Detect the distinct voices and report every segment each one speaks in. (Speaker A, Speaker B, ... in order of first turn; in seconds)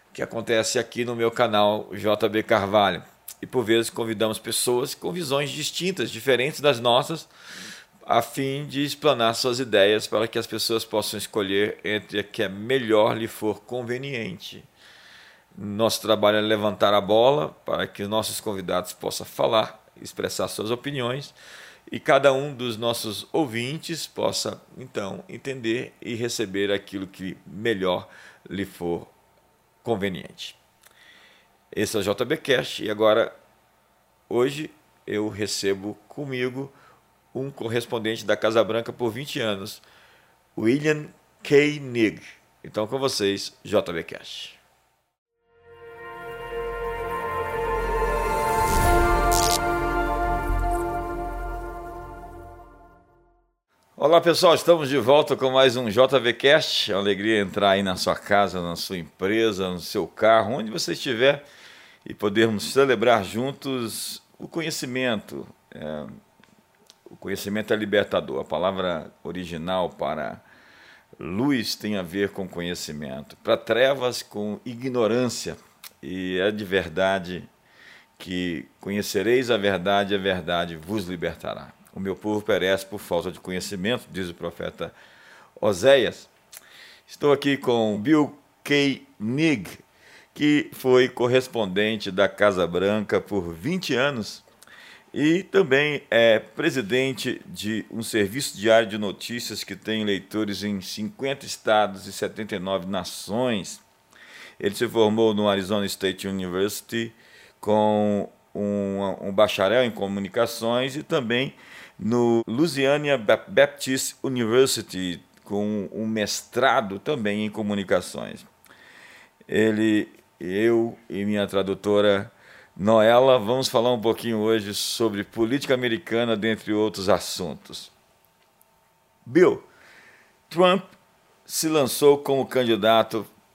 Speaker A: 0.1-7.3, 8.1-14.7, 15.6-21.4, 21.9-29.1, 29.8-30.6, 31.7-33.3, 34.3-36.7, 37.3-39.8, 40.6-44.6, 54.0-61.4, 62.0-66.2, 67.1-70.4, 71.2-77.5, 78.2-84.9, 85.6-86.3, 87.1-89.8, 90.3-94.4, 95.1-103.8, 104.6-118.5, 119.5-127.9, 129.3-129.7, 130.5-130.9, 131.5-133.3